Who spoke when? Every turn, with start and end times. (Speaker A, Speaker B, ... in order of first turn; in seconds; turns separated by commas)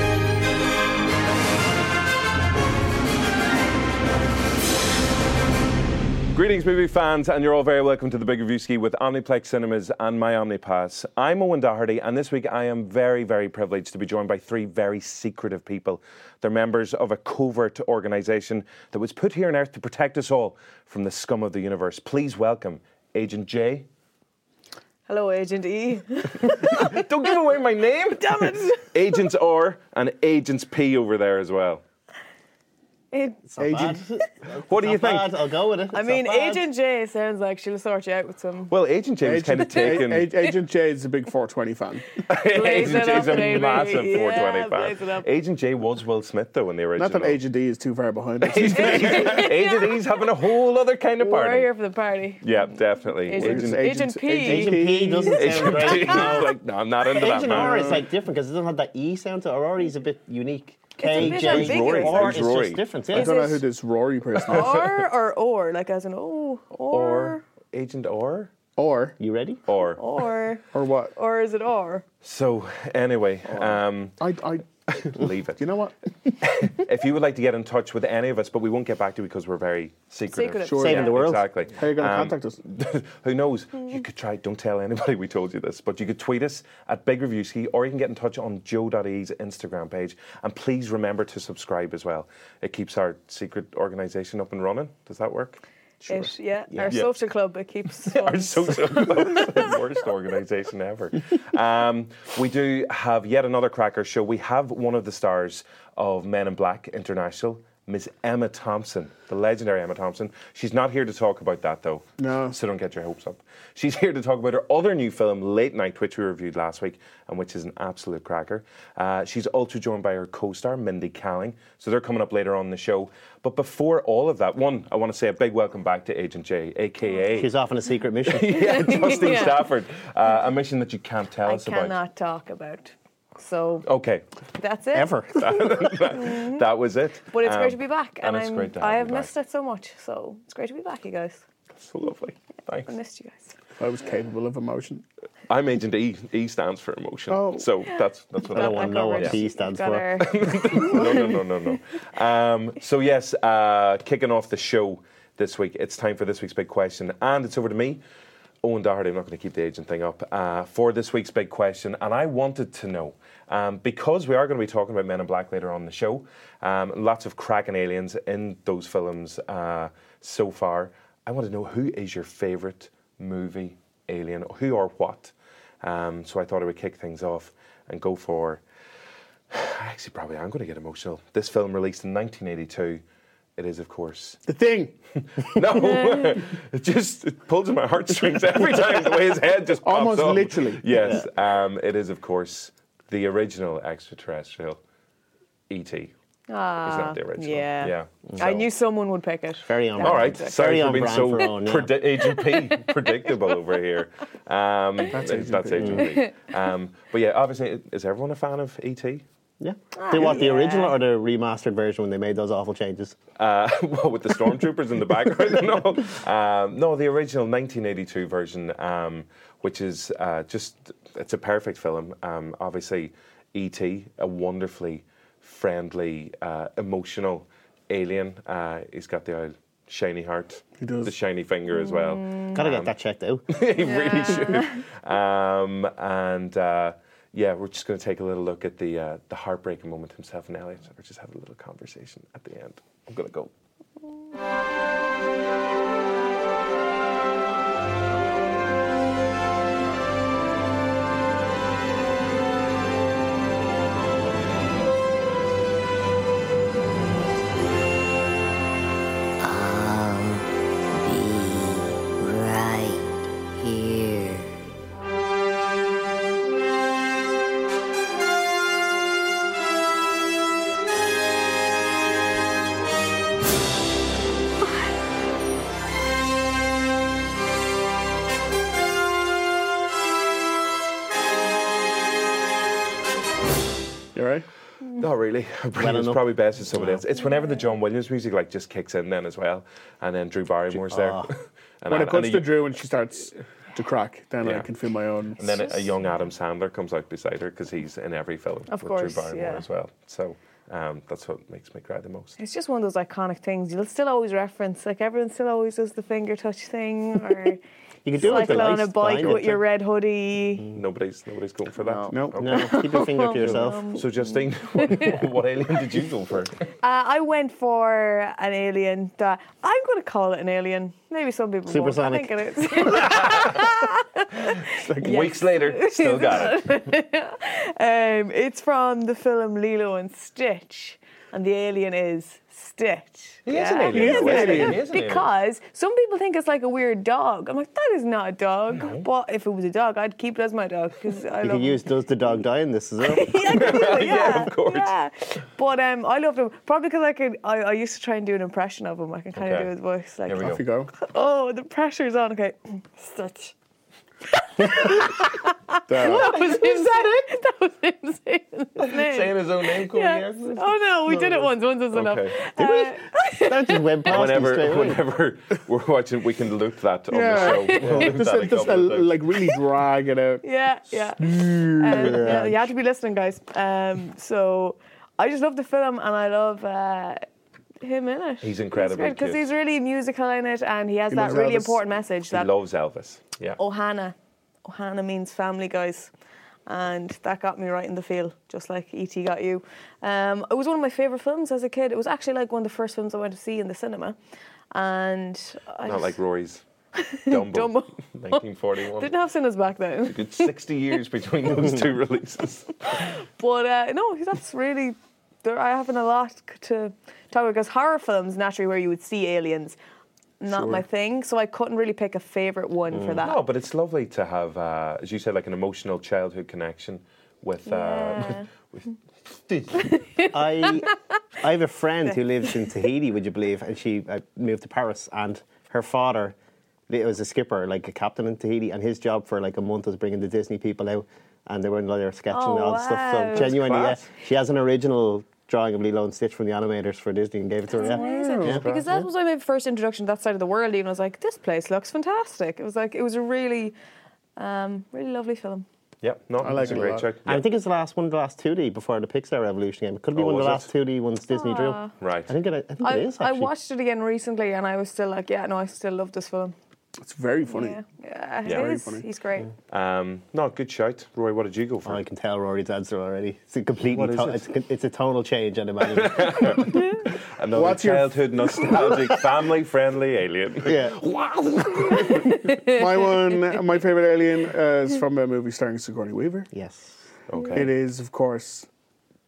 Speaker A: 6.3-23.9, Speaker B: 25.1-27.0, Speaker A: 26.5-31.8, Speaker B: 28.2-28.9, Speaker B: 33.1-33.4, Speaker C: 33.5-36.7, Speaker D: 33.6-34.0, Speaker A: 34.7-35.3, Speaker B: 35.9-38.7, Speaker A: 38.7-40.3, Speaker D: 39.2-42.2, Speaker A: 42.3-47.4, Speaker B: 42.5-45.2, Speaker D: 47.0-49.5, Speaker A: 48.4-51.7, Speaker B: 48.8-49.9, Speaker B: 51.2-54.8, Speaker A: 52.4-54.0, Speaker D: 53.3-55.7, Speaker C: 54.4-63.4, Speaker A: 55.3-58.0, Speaker D: 57.5-58.0, Speaker B: 61.0-62.4, Speaker A: 61.1-62.8, Speaker B: 63.1-63.6, Speaker D: 63.1-64.8, Speaker B: 64.5-67.4, Speaker A: 64.5-65.0, Speaker A: 66.9-68.5, Speaker D: 68.8-69.2, Speaker C: 69.2-69.6, Speaker A: 69.7-70.0, Speaker B: 70.0-70.6, Speaker D: 70.7-71.1, Speaker B: 71.2-72.0, Speaker A: 72.2-74.2, Speaker D: 73.5-76.3, Speaker A: 74.9-75.6, Speaker A: 76.4-95.6, Speaker B: 80.3-81.2, Speaker D: 80.7-81.1, Speaker C: 80.7-81.5, Speaker D: 81.7-82.6, Speaker D: 96.0-96.3, Speaker B: 96.1-99.7, Speaker C: 96.7-97.0, Speaker A: 98.1-127.5, Speaker D: 112.2-112.6, Speaker C: 127.3-129.3, Speaker A: 128.3-132.0, Speaker B: 128.6-129.6, Speaker B: 131.4-133.9, Speaker A: 133.8-134.2, Speaker B: 134.6-135.2, Speaker C: 134.9-135.7, Speaker A: 135.4-139.3, Speaker B: 136.1-136.6, Speaker B: 137.3-141.4, Speaker A: 141.8-142.9, Speaker B: 142.8-143.6, Speaker D: 143.8-145.0, Speaker A: 145.5-149.4, Speaker D: 147.3-147.7, Speaker C: 148.5-150.3, Speaker B: 148.5-151.4, Speaker A: 150.2-158.0, Speaker A: 158.6-178.6, Speaker A: 179.5-183.0, Speaker A: 183.6-184.4, Speaker D: 184.5-184.9, Speaker A: 185.4-194.8, Speaker D: 189.8-191.1, Speaker A: 195.7-196.1, Speaker B: 196.5-200.6, Speaker A: 196.8-198.7, Speaker C: 199.7-201.9, Speaker A: 200.0-209.2, Speaker D: 205.1-206.1, Speaker C: 205.8-206.1, Speaker C: 209.6-213.2, Speaker B: 210.0-211.0, Speaker A: 213.4-232.9, Speaker D: 230.8-231.1, Speaker B: 231.7-232.6, Speaker C: 232.5-233.4, Speaker A: 233.5-243.5, Speaker B: 233.8-234.8, Speaker E: 259.4-264.8, Speaker D: 284.1-284.4, Speaker A: 285.0-292.6, Speaker C: 285.8-287.0, Speaker C: 290.7-291.3, Speaker D: 291.9-295.4, Speaker A: 294.4-294.7, Speaker A: 295.4-302.4, Speaker B: 298.7-299.6, Speaker B: 302.4-307.6, Speaker C: 308.0-309.6, Speaker B: 308.1-310.7, Speaker A: 310.7-312.7, Speaker D: 311.9-312.6, Speaker C: 312.4-313.9, Speaker B: 312.5-314.1, Speaker A: 313.4-316.5, Speaker B: 314.8-315.1, Speaker B: 316.8-341.8, Speaker C: 321.7-322.4, Speaker A: 323.0-323.6, Speaker D: 324.8-325.4, Speaker A: 325.0-326.8, Speaker A: 333.4-335.3, Speaker D: 333.9-334.8, Speaker A: 338.7-339.1, Speaker C: 341.4-343.8, Speaker B: 343.0-353.5, Speaker A: 343.5-344.9, Speaker A: 349.4-349.7, Speaker A: 350.3-350.6, Speaker D: 350.4-350.9, Speaker B: 354.4-364.2, Speaker D: 355.9-356.4, Speaker A: 358.8-360.8, Speaker A: 361.9-362.4, Speaker C: 362.6-365.0, Speaker A: 364.1-369.2, Speaker D: 367.1-370.4, Speaker B: 367.4-368.0, Speaker B: 370.4-371.2, Speaker D: 371.2-372.5, Speaker B: 371.8-377.2, Speaker C: 371.9-372.5, Speaker B: 377.8-382.5, Speaker A: 378.4-379.4, Speaker D: 381.1-381.8, Speaker A: 382.3-383.6, Speaker B: 383.6-386.1, Speaker B: 386.7-394.1, Speaker B: 394.7-396.2, Speaker A: 395.8-396.6, Speaker B: 396.9-398.4, Speaker A: 397.3-399.1, Speaker B: 399.0-400.5, Speaker A: 400.0-403.1, Speaker B: 402.9-409.8, Speaker B: 410.4-413.4, Speaker D: 410.5-410.8, Speaker C: 412.9-413.2, Speaker A: 413.2-419.9, Speaker B: 417.6-418.5, Speaker B: 419.8-420.8, Speaker C: 420.3-420.9, Speaker C: 421.4-426.4, Speaker C: 426.9-438.6, Speaker B: 432.3-433.5, Speaker A: 433.3-434.0, Speaker B: 437.7-443.7, Speaker D: 437.8-438.8, Speaker B: 444.4-445.6, Speaker A: 446.0-447.4, Speaker D: 446.4-447.1, Speaker C: 446.7-453.5, Speaker A: 450.1-450.7, Speaker B: 451.3-451.9, Speaker A: 452.0-452.3, Speaker B: 452.8-456.5, Speaker D: 457.0-457.8, Speaker B: 457.5-459.5, Speaker D: 458.5-459.0, Speaker A: 459.7-462.0, Speaker C: 461.8-466.6, Speaker A: 465.9-466.7, Speaker A: 467.4-472.2, Speaker D: 467.5-468.8, Speaker C: 470.6-471.0, Speaker B: 472.1-472.8, Speaker D: 472.6-476.5, Speaker C: 476.5-477.0, Speaker A: 477.3-477.7, Speaker D: 477.5-478.7